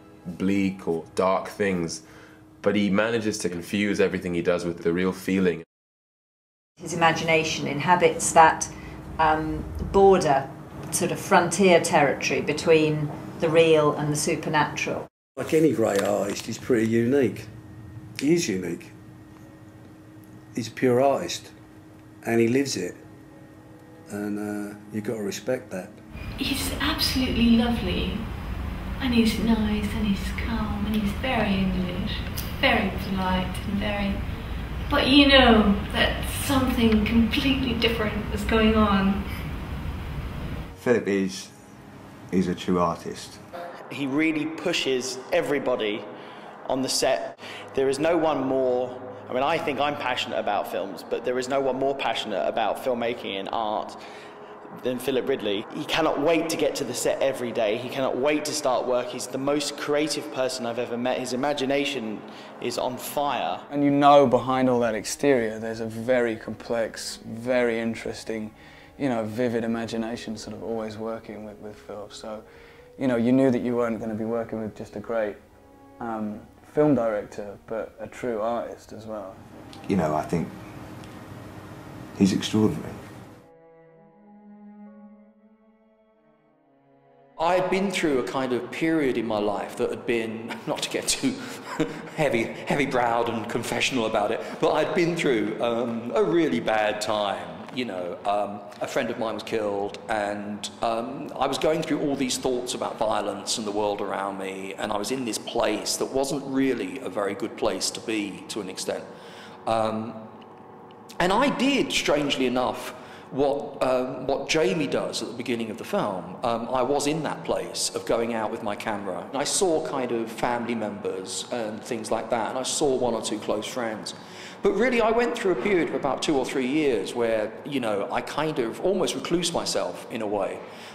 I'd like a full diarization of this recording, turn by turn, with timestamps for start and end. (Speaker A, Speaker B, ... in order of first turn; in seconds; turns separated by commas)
Speaker A: 0.3-2.0, Speaker A: 2.6-5.6, Speaker B: 6.8-15.1, Speaker C: 15.4-17.5, Speaker C: 18.2-18.9, Speaker C: 20.5-21.5, Speaker C: 22.2-23.0, Speaker C: 24.1-26.0, Speaker D: 26.4-28.3, Speaker D: 29.0-34.2, Speaker D: 34.9-39.2, Speaker E: 40.8-41.5, Speaker E: 42.3-43.4, Speaker F: 43.9-46.1, Speaker F: 46.7-54.0, Speaker F: 54.8-63.6, Speaker G: 63.7-72.4, Speaker G: 73.0-75.4, Speaker G: 76.0-79.4, Speaker E: 79.9-80.5, Speaker E: 82.2-83.0, Speaker H: 87.4-109.1, Speaker H: 109.7-110.2, Speaker H: 111.2-130.6